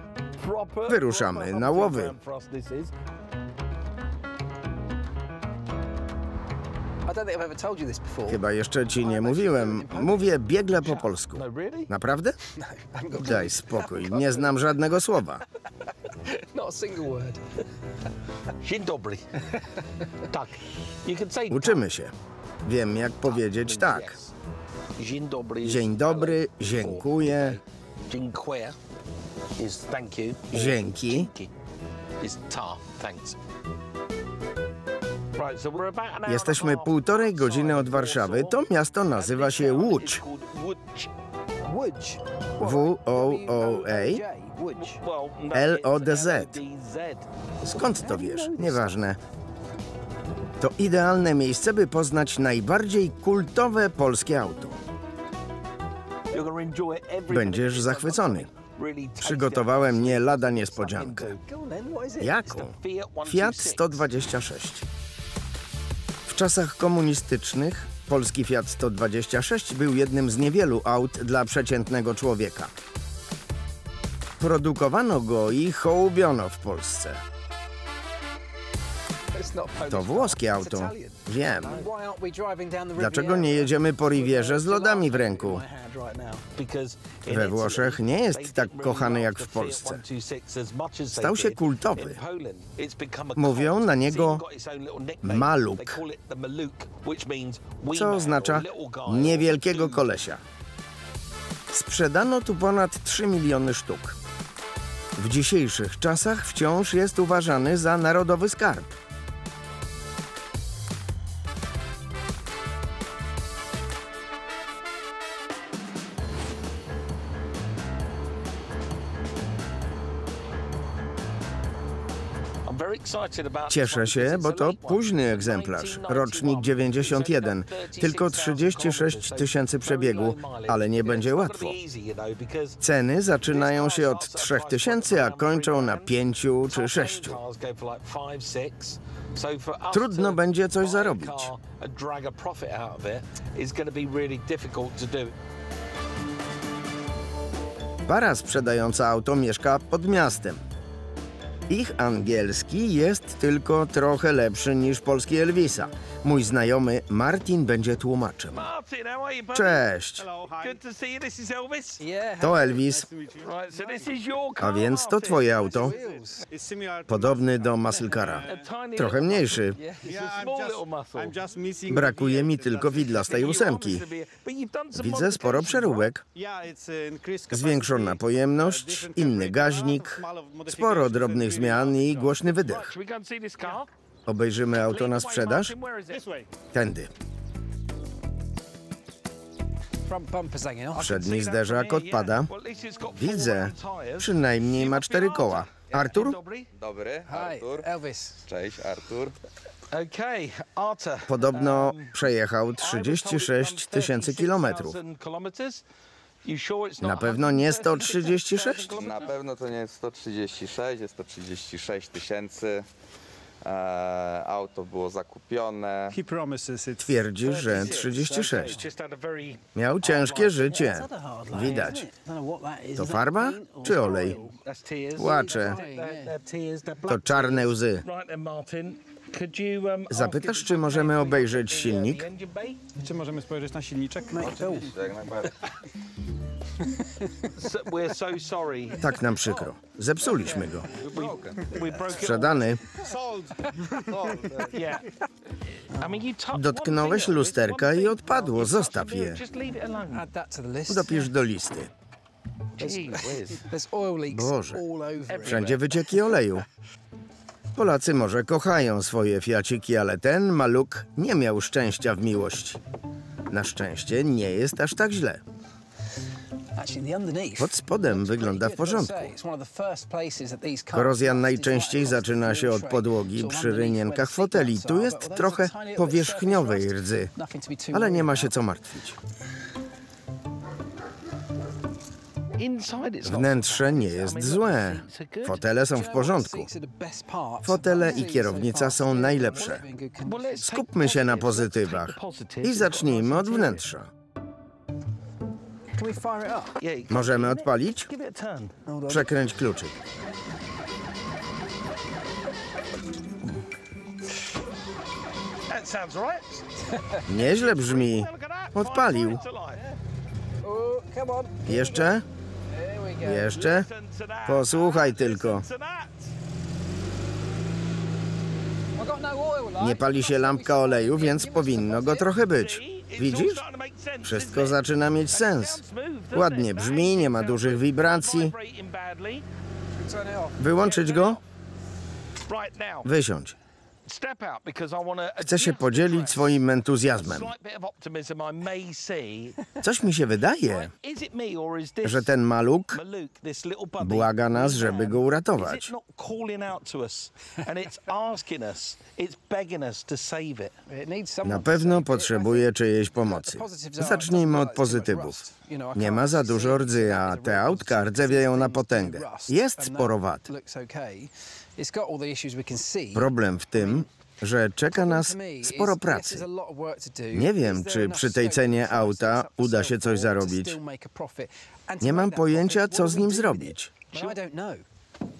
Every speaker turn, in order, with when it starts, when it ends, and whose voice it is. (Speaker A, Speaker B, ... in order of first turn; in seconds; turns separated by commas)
Speaker A: 0.3-2.9, Speaker B: 0.9-2.1, Speaker C: 7.0-8.4, Speaker B: 8.3-12.4, Speaker C: 8.9-10.4, Speaker A: 11.3-11.9, Speaker C: 12.6-14.5, Speaker B: 13.1-15.4, Speaker C: 16.1-17.5, Speaker A: 18.6-19.2, Speaker A: 20.2-21.8, Speaker B: 21.5-24.1, Speaker A: 23.2-24.3, Speaker A: 24.9-28.8, Speaker B: 25.6-27.6, Speaker A: 29.6-31.5, Speaker B: 30.5-31.3, Speaker A: 32.2-33.4, Speaker A: 35.3-41.1, Speaker B: 36.2-40.2, Speaker C: 41.6-45.0, Speaker B: 42.6-44.2, Speaker A: 44.8-47.3, Speaker B: 45.5-46.6, Speaker B: 47.6-49.2, Speaker C: 47.9-49.0, Speaker B: 50.6-54.8, Speaker A: 56.3-61.4, Speaker B: 57.3-58.5, Speaker B: 59.2-61.3, Speaker C: 61.5-62.4, Speaker B: 62.2-64.8, Speaker A: 62.5-64.0, Speaker B: 66.3-72.7, Speaker B: 74.4-77.2, Speaker C: 79.3-86.4, Speaker B: 79.9-81.8, Speaker A: 81.5-81.9, Speaker B: 83.0-85.6, Speaker A: 86.5-100.1, Speaker B: 87.3-90.0, Speaker B: 91.1-92.2, Speaker B: 93.4-94.4, Speaker B: 95.2-96.0, Speaker B: 97.9-100.4, Speaker B: 101.7-104.2, Speaker B: 105.2-108.9, Speaker A: 122.7-132.8, Speaker B: 123.7-131.8, Speaker B: 132.8-137.4, Speaker A: 133.4-136.2, Speaker A: 136.7-145.3, Speaker B: 139.9-141.5, Speaker B: 148.1-150.6, Speaker B: 151.7-158.7, Speaker A: 158.5-159.9, Speaker B: 159.5-160.3, Speaker D: 160.2-160.8, Speaker A: 160.6-162.0, Speaker C: 162.0-162.8, Speaker B: 162.4-163.1, Speaker D: 162.8-164.1, Speaker A: 163.4-166.0, Speaker B: 164.6-165.9, Speaker C: 165.6-166.4, Speaker D: 166.4-168.7, Speaker B: 167.1-169.8, Speaker A: 168.5-169.6, Speaker C: 169.7-170.2, Speaker D: 170.1-173.4, Speaker A: 170.1-171.3, Speaker B: 171.9-174.0, Speaker A: 173.1-175.9, Speaker B: 174.9-176.2, Speaker D: 175.8-182.4, Speaker B: 177.5-182.9, Speaker A: 182.6-183.9, Speaker B: 184.3-185.7, Speaker A: 184.8-186.3, Speaker D: 186.1-186.5, Speaker B: 186.7-187.1, Speaker C: 190.1-191.2, Speaker A: 190.9-196.7, Speaker B: 191.0-192.5, Speaker B: 193.2-196.4, Speaker E: 196.8-197.9, Speaker C: 197.2-198.4, Speaker E: 198.5-199.3, Speaker A: 199.9-202.2, Speaker B: 201.3-205.0, Speaker A: 202.8-205.8, Speaker A: 206.4-209.3, Speaker B: 207.0-209.0, Speaker E: 208.9-212.9, Speaker E: 213.6-216.2, Speaker D: 216.1-217.2, Speaker B: 217.0-218.8, Speaker A: 217.4-220.7, Speaker B: 219.8-222.0, Speaker C: 220.7-224.6, Speaker A: 221.6-222.0, Speaker B: 223.0-224.4, Speaker A: 224.6-232.8, Speaker B: 225.2-225.8, Speaker C: 225.2-226.3, Speaker B: 227.1-228.1, Speaker B: 230.1-232.2, Speaker D: 233.0-234.9, Speaker C: 234.3-235.0, Speaker E: 234.4-235.6, Speaker C: 236.9-237.5, Speaker A: 237.6-239.2, Speaker B: 239.0-240.9, Speaker A: 240.4-242.8, Speaker E: 240.9-241.9, Speaker B: 242.1-242.8, Speaker D: 243.0-244.6, Speaker E: 244.1-244.8, Speaker A: 244.6-245.1, Speaker A: 245.8-250.3, Speaker B: 246.5-249.4, Speaker C: 250.1-251.3, Speaker B: 250.9-251.9, Speaker A: 252.8-253.7, Speaker C: 252.9-255.7, Speaker B: 254.3-254.8, Speaker A: 255.3-256.0, Speaker B: 255.4-256.7, Speaker B: 257.8-262.8, Speaker B: 263.5-265.4, Speaker C: 266.8-278.6, Speaker B: 267.6-269.3, Speaker B: 270.9-277.3, Speaker B: 277.9-279.2, Speaker A: 282.6-285.6, Speaker B: 283.2-286.7, Speaker C: 285.9-290.7, Speaker B: 287.6-289.8, Speaker A: 289.6-293.8, Speaker B: 290.6-294.1, Speaker C: 295.9-296.8, Speaker A: 296.8-298.7, Speaker B: 297.1-298.1, Speaker C: 298.9-299.4, Speaker B: 299.1-300.0, Speaker A: 305.7-306.7, Speaker C: 306.9-307.2, Speaker A: 307.2-309.8, Speaker B: 307.3-309.4, Speaker C: 310.6-313.5, Speaker B: 311.7-312.2, Speaker B: 313.2-313.9, Speaker A: 313.5-316.3, Speaker B: 314.4-315.7, Speaker C: 318.9-322.3, Speaker B: 319.8-323.6, Speaker A: 322.5-329.4, Speaker B: 324.2-325.8, Speaker B: 326.3-328.5, Speaker C: 329.9-330.6, Speaker B: 330.6-331.4, Speaker A: 330.8-331.4, Speaker A: 332.5-333.1, Speaker B: 333.1-333.6, Speaker A: 334.1-336.6, Speaker B: 335.4-337.5, Speaker A: 337.1-339.6, Speaker B: 339.8-340.9, Speaker A: 340.6-342.4, Speaker B: 342.0-343.0, Speaker A: 342.9-350.8, Speaker B: 344.0-345.9, Speaker C: 350.9-364.1, Speaker B: 351.4-355.4, Speaker B: 355.9-360.5, Speaker B: 363.1-366.4, Speaker C: 364.9-374.8, Speaker B: 367.3-370.8, Speaker B: 372.0-373.9, Speaker A: 374.1-374.4